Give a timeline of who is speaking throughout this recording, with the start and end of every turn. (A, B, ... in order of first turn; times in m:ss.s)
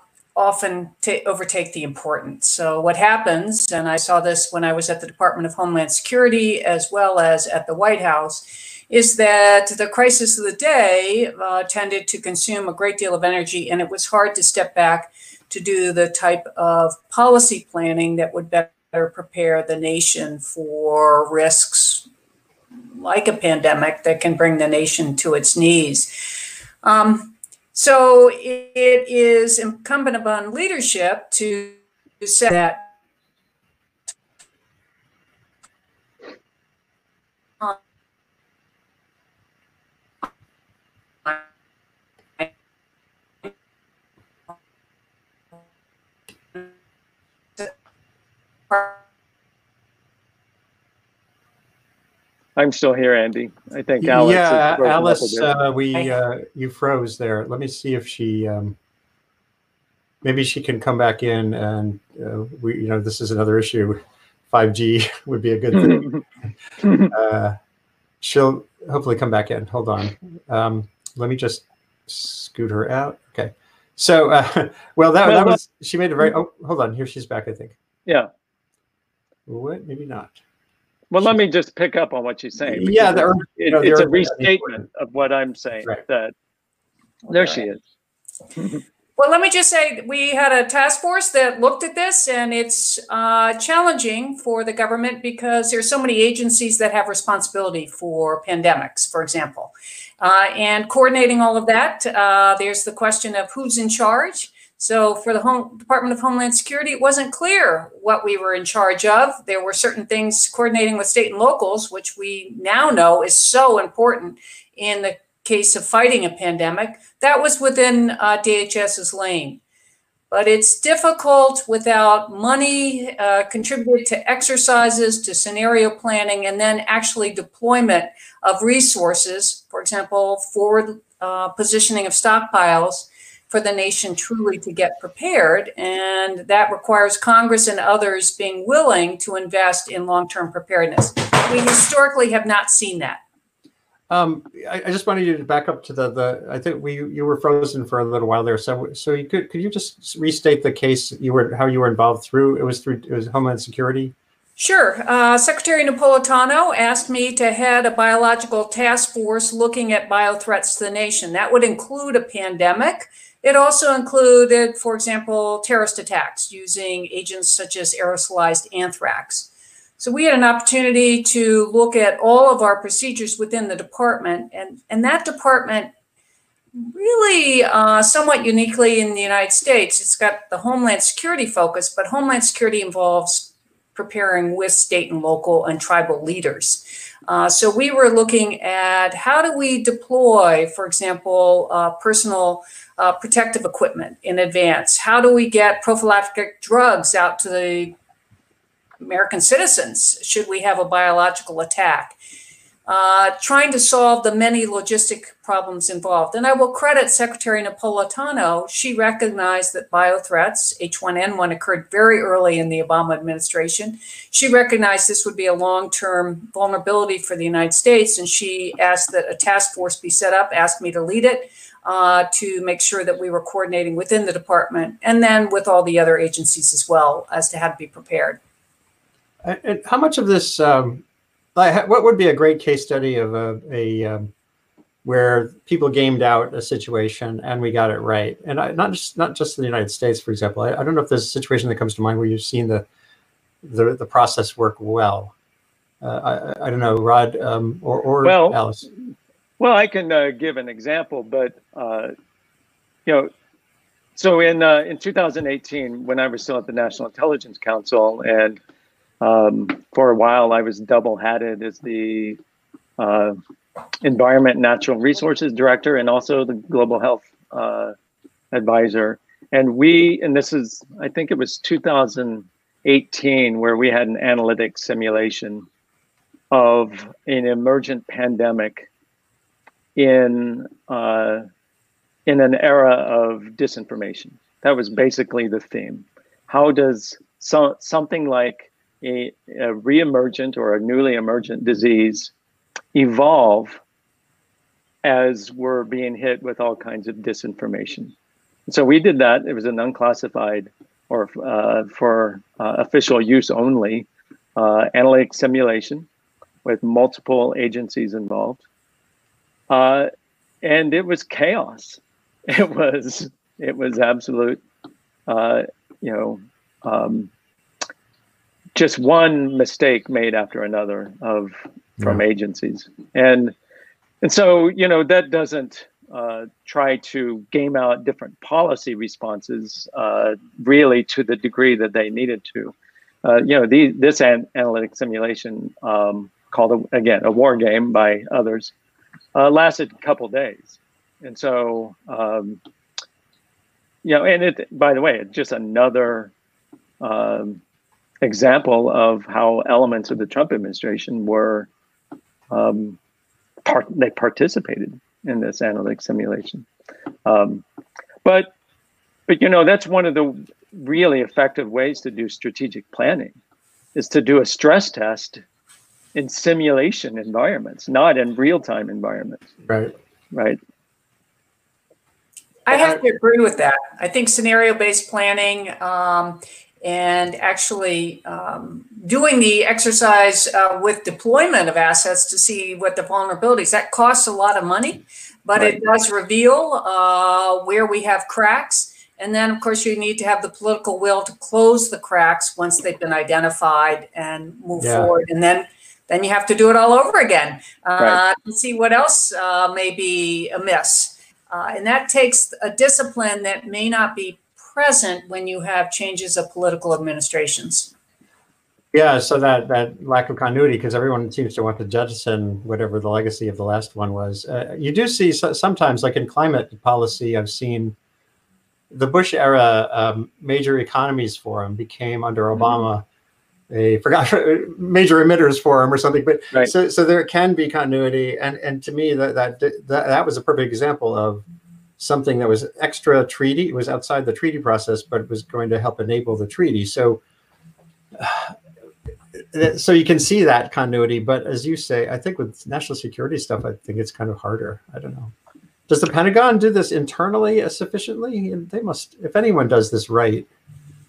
0:00.3-0:22.0 A
0:23.0-0:26.1 A
0:26.8-0:32.9 A
0:48.7-0:49.0 A
0:52.6-0:55.5 B
0:54.0-0:58.8 C
1:00.2-1:04.0 C
1:04.5-1:06.2 C
1:05.7-1:06.2 B
1:06.8-1:07.1 B
1:06.8-1:07.6 C
1:08.2-1:17.8 C
1:15.2-1:15.6 B
1:19.5-1:20.4 C
1:21.1-1:26.3 B
1:22.6-1:24.8 C
1:27.3-1:27.8 B
1:27.3-1:27.6 C
1:28.6-1:28.8 B
1:29.2-1:59.6 A
2:00.3-2:23.2 A
2:24.1-2:34.1 C
2:34.6-2:55.9 A
2:56.8-3:17.9 A
3:19.0-3:22.2 A
3:22.8-3:48.4 A
3:49.4-3:51.0 C
3:51.5-3:54.3 C
3:55.0-4:02.8 C
4:03.6-4:05.3 C
4:06.0-4:08.8 C
4:08.2-4:08.6 B
4:09.6-4:12.1 B
4:13.0-4:13.3 B
4:14.1-4:18.6 B
4:19.2-4:22.4 B
4:23.0-4:23.4 B
4:24.0-4:27.9 B
4:28.5-4:35.6 B
4:36.5-4:38.9 B
4:40.0-4:41.4 B
4:42.3-4:52.3 B
4:52.9-4:53.8 B
4:55.0-4:58.1 B
4:58.7-5:06.1 B
5:06.6-5:08.6 B
5:09.7-5:10.1 B
5:10.6-5:14.6 B
5:15.3-5:17.3 B
5:18.7-5:23.5 B
5:24.2-5:38.7 B
5:39.3-5:42.6 B
5:44.0-5:46.3 B
5:47.0-5:47.6 B
5:48.2-5:51.7 B
5:52.5-5:53.0 B
5:53.6-5:56.6 B
5:57.2-5:57.6 B
5:58.2-5:58.5 B
5:59.3-6:03.3 B
6:03.9-6:05.4 B
6:06.1-6:09.5 B
6:09.7-6:09.9 C
6:10.3-6:10.6 B
6:12.6-6:47.9 A
6:34.8-6:35.1 C
6:48.9-6:58.0 C
6:58.9-7:03.0 C
7:03.7-7:11.4 C
7:12.0-7:17.2 C
7:18.1-7:18.5 C
7:19.5-7:25.3 C
7:25.9-7:30.5 C